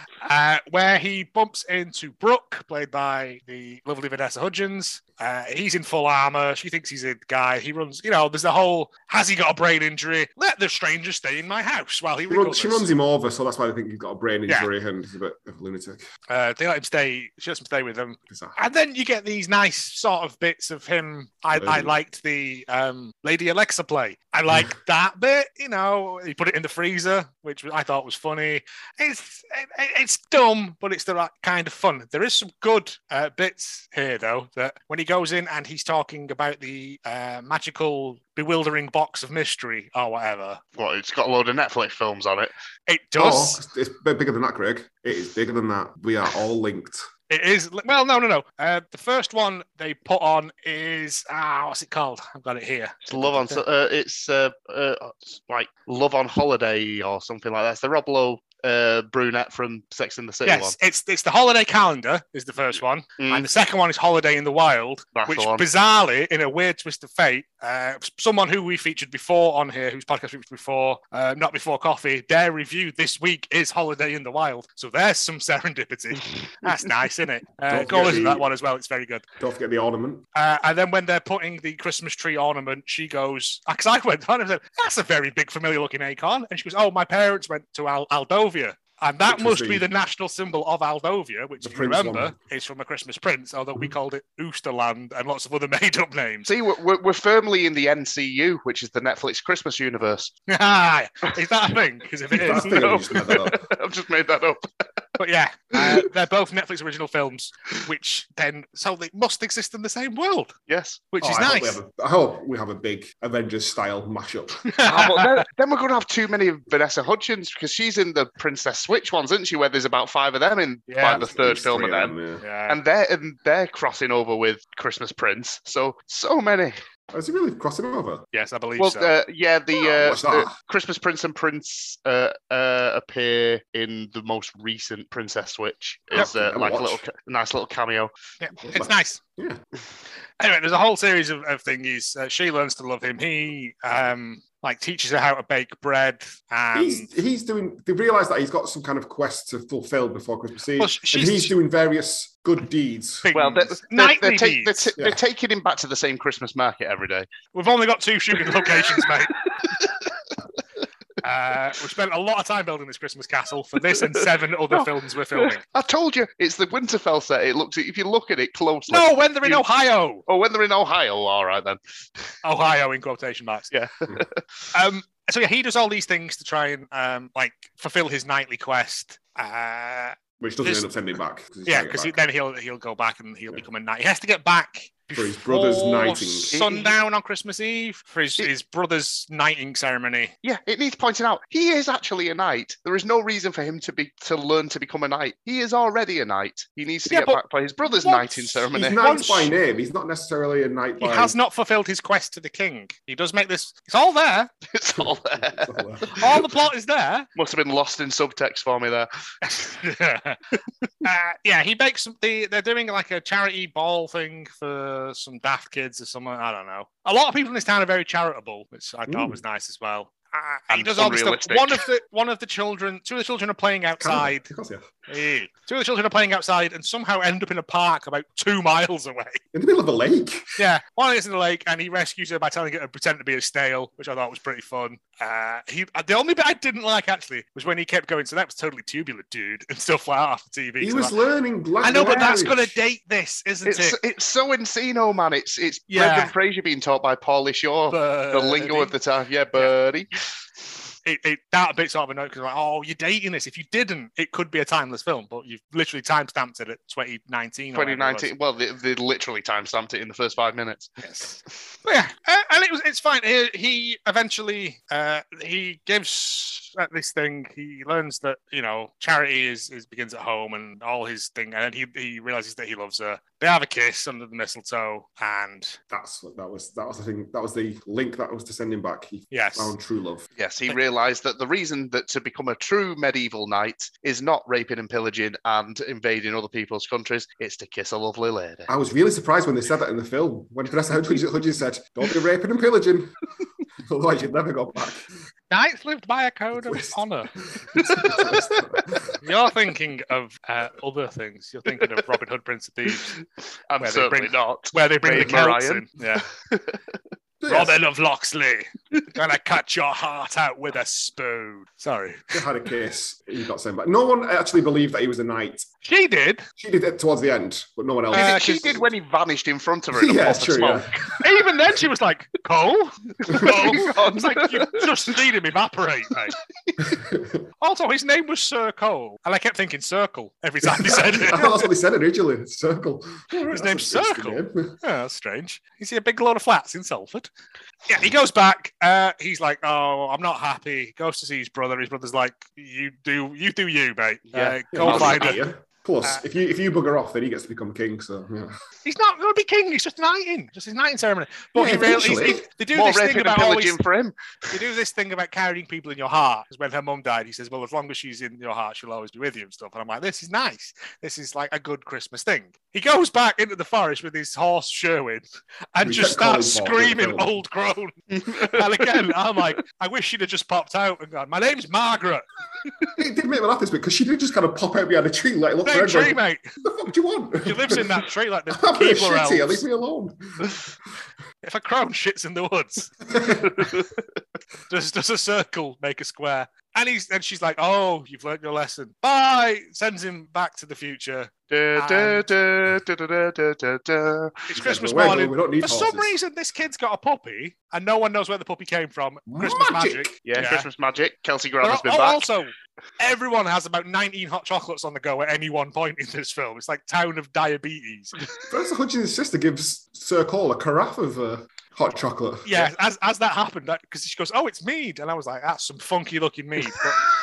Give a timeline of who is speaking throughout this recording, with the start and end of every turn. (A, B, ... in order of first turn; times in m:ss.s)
0:00.2-0:12.9 A
0:12.3-0:16.0 B
0:16.3-0:40.6 A
0:18.3-0:18.6 B
0:21.5-0:22.0 B
0:40.8-0:42.5 C
0:42.9-0:43.6 A
0:43.2-0:47.0 B
0:47.3-0:53.6 A
0:53.0-1:00.8 C
1:00.4-1:19.2 A
1:03.2-1:03.5 C
1:05.1-1:05.7 C
1:17.7-1:18.5 B
1:19.4-1:20.2 B
1:20.3-1:36.5 A
1:29.2-1:29.9 B
1:31.6-1:32.3 B
1:36.5-1:40.3 C
1:40.5-1:43.1 A
1:42.3-1:43.7 B
1:42.4-1:44.6 C
1:45.2-1:50.6 A
1:45.8-1:46.0 C
1:50.7-1:51.1 C
1:51.1-1:51.8 A
1:51.2-1:54.6 B
1:54.7-1:55.4 A
1:54.8-2:02.2 C
2:00.9-2:01.3 A
2:01.1-2:02.4 B
2:02.4-2:02.8 A
2:02.7-2:06.8 C
2:07.1-2:08.2 B
2:08.3-2:09.1 A
2:08.8-2:18.1 C
2:09.7-2:10.5 B
2:16.1-2:17.0 B
2:18.4-2:19.2 A
2:18.6-2:19.6 B
2:20.4-2:27.1 A
2:26.7-2:33.3 B
2:30.8-2:31.6 A
2:33.2-2:34.9 A
2:33.3-2:37.3 C
2:37.5-2:39.4 A
2:38.6-2:40.1 C
2:41.2-2:45.6 A
2:43.9-2:49.6 C
2:48.9-2:50.2 A
2:50.3-2:51.8 C
2:52.4-2:53.7 A
2:53.7-2:54.7 C
2:54.7-3:01.0 A
3:00.4-3:02.2 B
3:01.7-3:10.3 A
3:05.1-3:06.5 B
3:06.5-3:07.0 C
3:10.4-3:19.0 C
3:17.1-3:19.5 A
3:18.7-3:21.3 B
3:21.0-3:24.5 A
3:24.7-3:25.7 C
3:25.0-3:26.4 B
3:26.1-3:27.3 A
3:27.4-3:29.8 C
3:29.6-3:30.4 A
3:31.0-3:44.5 A
3:39.1-3:39.4 B
3:40.7-3:41.8 C
3:44.0-3:44.8 B
3:45.1-3:49.4 A
3:49.5-3:50.4 B
3:50.6-4:01.2 A
4:00.8-4:02.8 B
4:01.8-4:04.0 A
4:01.9-4:02.4 C
4:03.7-4:10.1 C
4:05.9-4:06.3 A
4:07.9-4:09.0 A
4:11.0-4:18.3 A
4:17.7-4:20.9 C
4:21.0-4:35.8 A
4:35.9-4:40.2 B
4:39.3-4:39.7 A
4:40.4-4:48.7 C
4:48.7-4:53.2 B
4:53.9-4:55.0 B
4:55.5-5:03.1 A
4:56.6-4:57.0 B
4:57.6-4:59.2 B
4:57.8-4:58.2 C
5:03.7-5:05.8 C
5:03.8-5:06.2 A
5:06.4-5:06.8 C
5:07.4-5:07.8 B
5:07.5-5:12.2 A
5:12.3-5:15.6 B
5:15.8-5:16.4 A
5:16.6-5:18.9 B
5:18.1-5:18.8 A
5:18.1-5:21.2 C
5:19.9-5:20.9 B
5:21.2-5:26.4 A
5:23.2-5:25.1 C
5:23.4-5:23.8 B
5:26.9-5:27.4 B
5:27.6-5:31.7 A
5:30.8-5:34.8 B
5:33.4-5:37.3 A
5:37.9-5:45.5 A
5:44.3-5:45.4 C
5:44.7-5:48.5 B
5:48.8-5:53.8 A
5:51.6-5:52.5 B
5:52.7-5:54.6 C
5:54.5-6:12.9 A
6:05.8-6:07.3 B
6:08.2-6:09.1 C
6:13.0-6:20.2 B
6:15.6-6:16.5 A
6:17.4-6:19.6 A
6:21.4-6:23.7 A
6:23.6-6:23.9 C
6:24.7-6:32.3 A
6:31.5-6:34.3 C
6:34.5-6:40.7 A
6:34.5-6:36.1 B
6:39.3-6:40.2 B
6:40.3-6:42.3 C
6:41.6-6:48.2 A
6:48.5-6:52.7 B
6:52.4-6:57.0 A